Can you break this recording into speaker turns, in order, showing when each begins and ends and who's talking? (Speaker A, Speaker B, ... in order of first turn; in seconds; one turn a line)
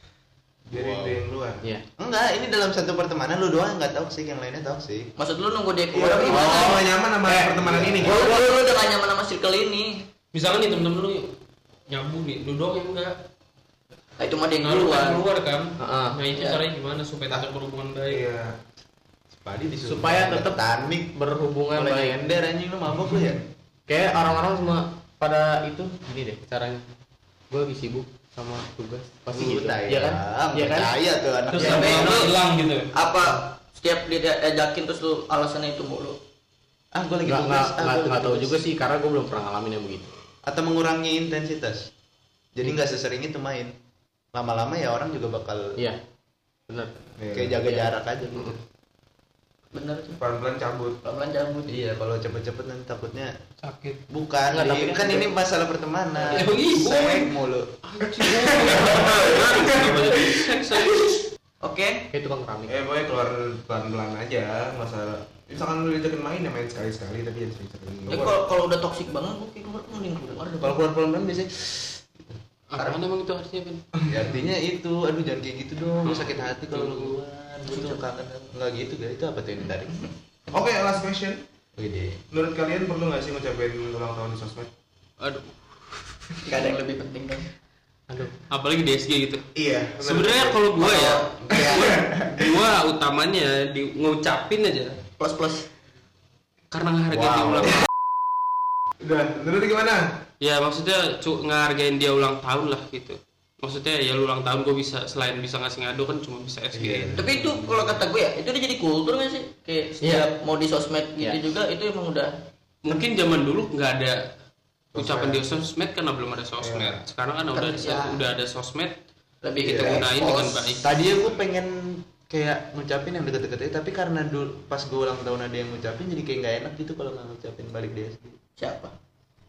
Speaker A: 0.7-1.6
Speaker B: 0.7-1.2
Speaker B: 2.0-5.1
Speaker C: 5.2-6.9
Speaker A: 6.0-8.4
Speaker B: 6.0-6.8
Speaker B: 7.7-8.4
Speaker C: 8.0-10.1
Speaker D: 10.3-11.3
Speaker D: 11.9-13.2
Speaker C: 14.2-15.2
Speaker D: 14.6-18.2
Speaker E: 15.8-16.1
Speaker C: 16.3-16.6
Speaker A: 18.1-18.6
Speaker B: 19.4-21.1
Speaker E: 19.8-20.6
Speaker E: 21.1-22.3
Speaker B: 21.8-23.4
Speaker E: 23.9-26.9
Speaker E: 27.5-30.9
Speaker B: 29.3-32.3
Speaker D: 31.5-32.9
Speaker E: 31.6-31.9
Speaker C: 31.6-32.4
Speaker C: 32.9-36.2
Speaker B: 36.9-38.7
Speaker E: 37.3-40.1
Speaker B: 40.5-41.9
Speaker B: 42.5-43.7
Speaker B: 44.3-45.8
Speaker E: 46.7-47.0
Speaker A: 47.2-47.6
Speaker B: 47.3-48.6
Speaker E: 47.6-48.6
Speaker C: 49.7-50.2
Speaker A: 50.2-51.0
Speaker C: 51.0-51.9
Speaker B: 51.7-53.3
Speaker D: 53.6-54.0
Speaker B: 54.1-57.7
Speaker E: 54.5-55.3
Speaker D: 56.3-61.2
Speaker A: 58.2-60.9
Speaker C: 61.6-62.1
Speaker E: 62.1-62.8
Speaker A: 62.7-68.5
Speaker C: 68.1-70.8
Speaker B: 70.6-72.0
Speaker D: 72.7-73.8
Speaker B: 74.1-80.0
Speaker D: 76.0-77.2
Speaker C: 77.7-78.0
Speaker A: 80.5-81.4
Speaker B: 81.8-82.2
Speaker A: 82.3-84.7
Speaker D: 85.2-86.2
Speaker C: 86.5-87.5
Speaker E: 88.1-88.3
Speaker D: 88.5-89.5
Speaker A: 89.5-90.7
Speaker D: 90.0-95.0
Speaker C: 90.8-92.0
Speaker A: 91.7-92.5
Speaker C: 95.2-95.7
Speaker D: 96.7-97.9
Speaker B: 97.1-97.8
Speaker A: 99.0-100.1
Speaker D: 100.4-107.2
Speaker A: 106.7-107.8
Speaker C: 107.2-112.3
Speaker E: 110.0-110.3
Speaker D: 112.8-114.3
Speaker D: 114.9-119.0
Speaker A: 115.0-115.5
Speaker A: 116.6-117.0
Speaker C: 117.5-118.2
Speaker C: 119.4-120.8
Speaker D: 119.6-120.9
Speaker B: 119.6-120.0
Speaker B: 120.8-128.4
Speaker C: 128.6-128.9